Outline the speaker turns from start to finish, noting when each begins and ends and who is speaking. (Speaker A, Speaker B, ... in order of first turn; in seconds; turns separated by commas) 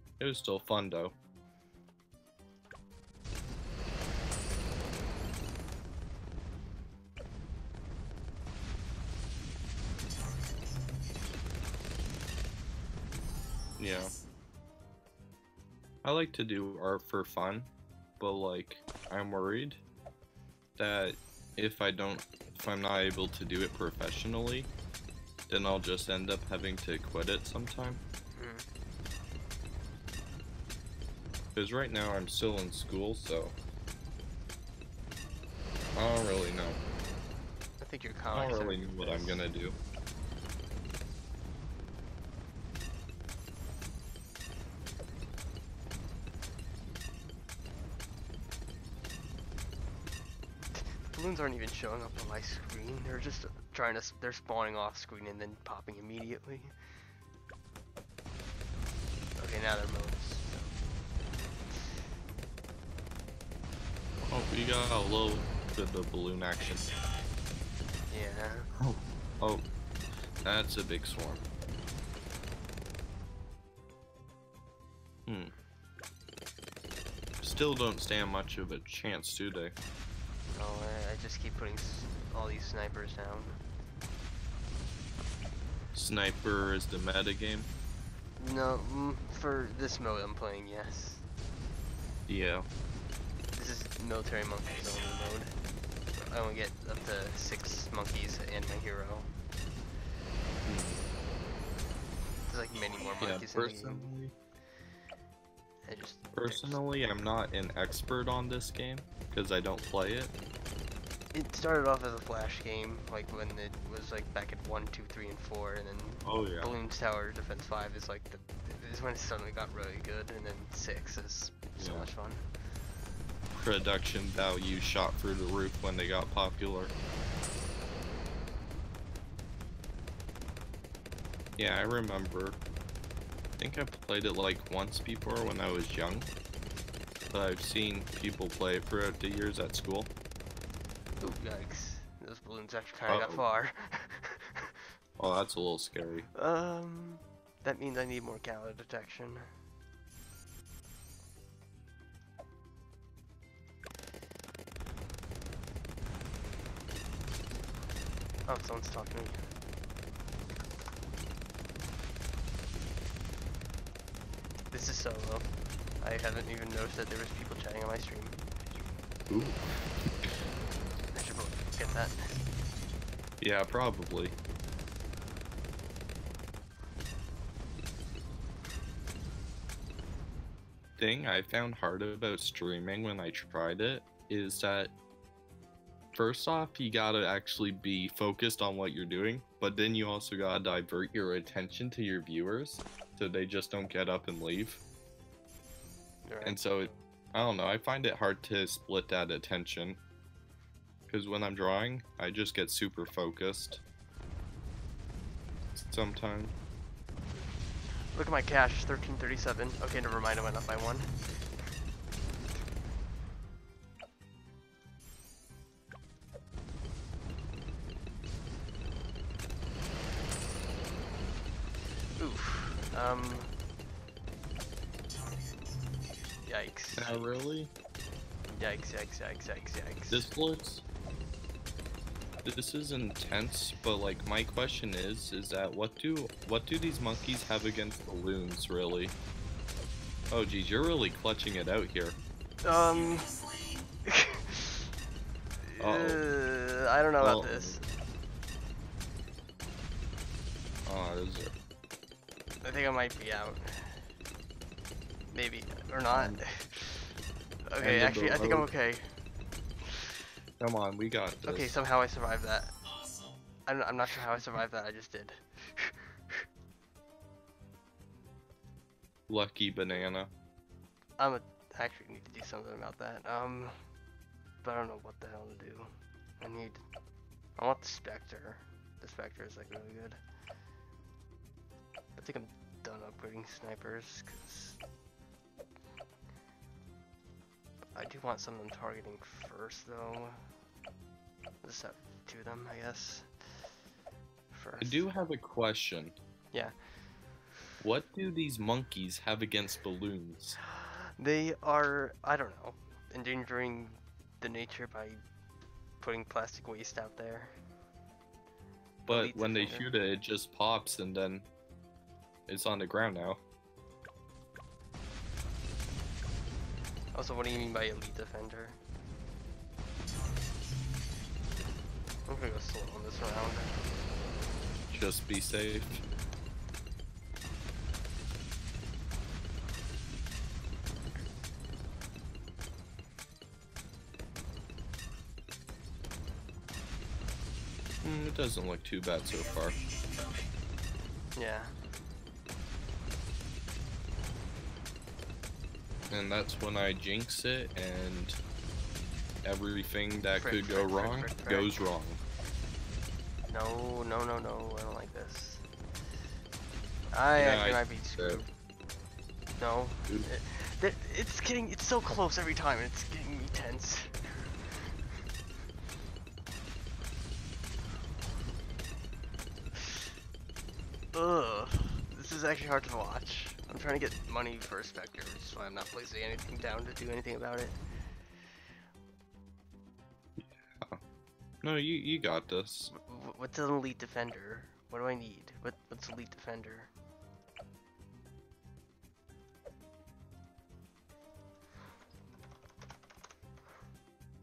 Speaker A: 0.2-1.1, Speaker A: 13.8-14.1, Speaker A: 16.0-19.8, Speaker A: 20.8-24.7, Speaker A: 25.5-28.0, Speaker B: 28.4-28.7, Speaker A: 31.6-33.5, Speaker A: 36.0-36.8, Speaker B: 37.8-39.5, Speaker A: 38.3-39.8, Speaker B: 50.8-56.7, Speaker B: 59.4-60.8, Speaker A: 64.3-66.9, Speaker B: 68.1-68.7, Speaker A: 68.8-69.7, Speaker A: 70.4-71.4, Speaker A: 75.3-75.5, Speaker A: 77.4-79.8, Speaker B: 80.5-83.6, Speaker A: 85.9-87.7, Speaker B: 88.4-91.2, Speaker A: 92.3-92.7, Speaker B: 93.5-95.5, Speaker B: 96.2-99.3, Speaker A: 100.6-101.1, Speaker B: 102.5-104.1, Speaker A: 103.2-104.3, Speaker B: 105.9-106.8, Speaker A: 106.3-110.3, Speaker B: 111.3-122.5, Speaker A: 116.2-116.8, Speaker A: 121.8-122.1, Speaker A: 123.5-126.9, Speaker A: 131.6-132.6, Speaker A: 133.6-136.3, Speaker A: 137.3-140.1, Speaker B: 141.2-144.8, Speaker A: 143.1-143.4, Speaker A: 145.2-146.3, Speaker B: 146.3-149.5, Speaker B: 158.5-159.4, Speaker B: 164.7-168.4, Speaker A: 169.3-170.3, Speaker B: 171.1-172.4, Speaker A: 173.4-174.3, Speaker A: 181.0-184.9, Speaker A: 186.1-194.8, Speaker B: 196.2-197.0, Speaker A: 196.4-200.0, Speaker A: 201.1-203.8, Speaker A: 205.8-206.5, Speaker B: 208.1-211.7, Speaker B: 222.2-223.6, Speaker B: 226.5-227.2, Speaker A: 226.9-227.7, Speaker B: 228.6-230.3, Speaker A: 230.1-230.8, Speaker A: 232.4-239.1, Speaker A: 240.3-242.2, Speaker B: 242.6-243.4, Speaker B: 244.1-244.9, Speaker B: 245.7-247.8, Speaker A: 245.8-246.3, Speaker A: 247.2-247.8, Speaker A: 250.8-251.6, Speaker B: 252.6-254.1, Speaker B: 255.3-257.2, Speaker A: 256.1-256.4, Speaker B: 257.7-259.2, Speaker A: 257.8-258.7, Speaker B: 259.8-260.2, Speaker A: 260.6-261.8, Speaker B: 261.5-262.7, Speaker B: 263.7-266.4, Speaker A: 269.3-270.3, Speaker B: 271.2-273.8, Speaker B: 274.6-276.8, Speaker B: 277.6-280.2, Speaker B: 282.2-284.8, Speaker B: 287.9-290.4, Speaker B: 291.6-293.7, Speaker B: 294.5-295.1, Speaker A: 294.8-296.2, Speaker A: 297.8-300.6, Speaker B: 300.6-305.2, Speaker B: 306.0-307.5, Speaker B: 309.1-309.9, Speaker A: 309.1-311.5, Speaker A: 312.5-313.4, Speaker B: 317.1-318.8, Speaker B: 322.3-323.8, Speaker A: 324.9-326.0, Speaker A: 338.0-339.8, Speaker B: 341.4-341.8, Speaker A: 346.1-348.4, Speaker A: 349.4-352.2, Speaker B: 350.4-351.8, Speaker B: 353.5-355.6, Speaker B: 357.1-358.5, Speaker A: 357.4-358.4, Speaker B: 359.6-365.2, Speaker B: 369.8-370.1, Speaker B: 371.1-377.8, Speaker A: 380.4-381.0, Speaker A: 381.6-382.9, Speaker B: 382.9-386.9